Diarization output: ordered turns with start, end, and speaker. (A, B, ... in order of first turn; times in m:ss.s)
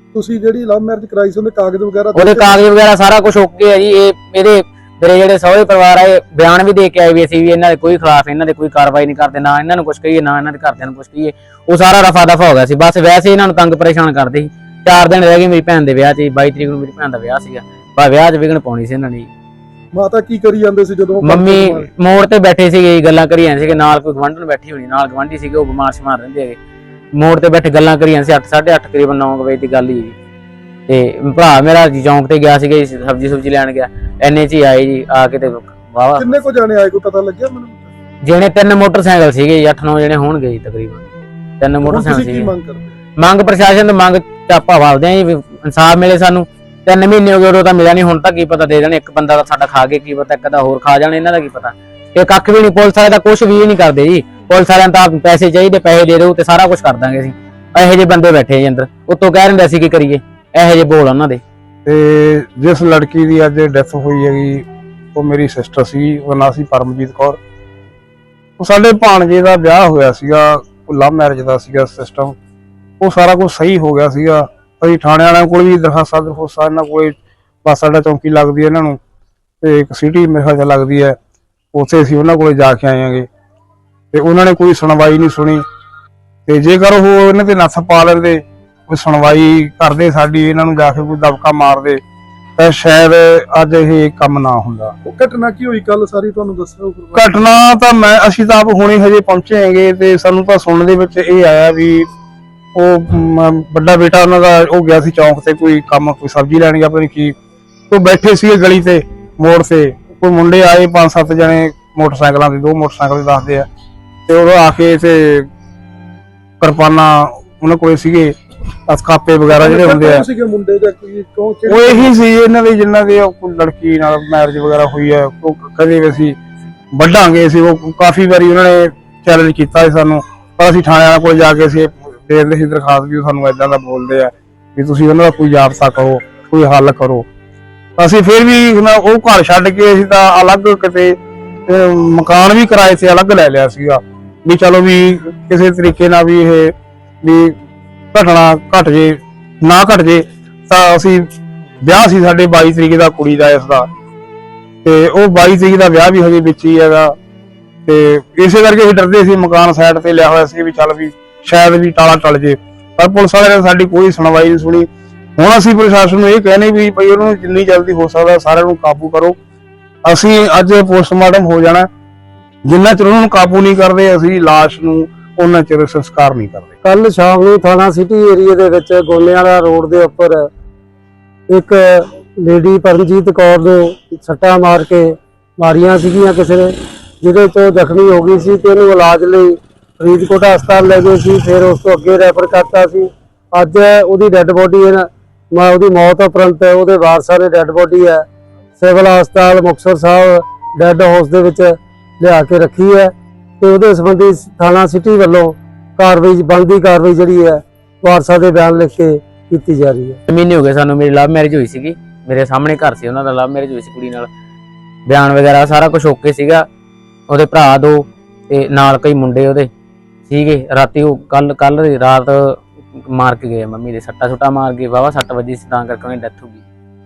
0:00.2-0:02.6 A
0:02.1-0:19.3 B
0:19.9-0:21.9 A
0:21.2-0:26.6 B
0:27.2-0:30.2 B
0:30.9-0:36.4 B
0:36.2-0:37.9 A
0:38.2-0:41.1 B
0:41.6-0:42.6 B
0:41.8-0:43.0 A
0:43.2-1:01.4 B
1:01.8-1:07.4 C
1:08.6-1:12.4 C
1:13.0-1:19.0 C
1:19.6-1:21.2 C
1:21.7-1:23.3 C
1:24.1-1:25.6 C
1:26.5-1:32.0 C
1:32.6-1:35.0 C
1:35.0-1:37.5 A
1:37.2-1:42.1 C
1:42.8-1:47.4 C
1:47.9-1:53.7 C
1:54.3-1:55.5 C
1:56.6-1:58.4 C
1:58.9-2:00.3 C
1:59.5-2:02.2 A
2:01.7-2:06.4 C
2:06.9-2:17.3 C
2:18.0-2:27.6 C
2:28.1-2:31.3 C
2:31.8-2:33.9 C
2:34.8-2:37.2 C
2:37.9-2:49.4 C
2:50.0-2:51.9 C
2:52.6-2:56.8 C
2:56.8-3:00.5 D
3:01.5-3:18.2 D
3:18.8-3:30.2 D
3:30.3-3:34.3 B
3:35.1-3:36.6 B
3:37.3-3:39.7 B
3:40.3-3:46.6 B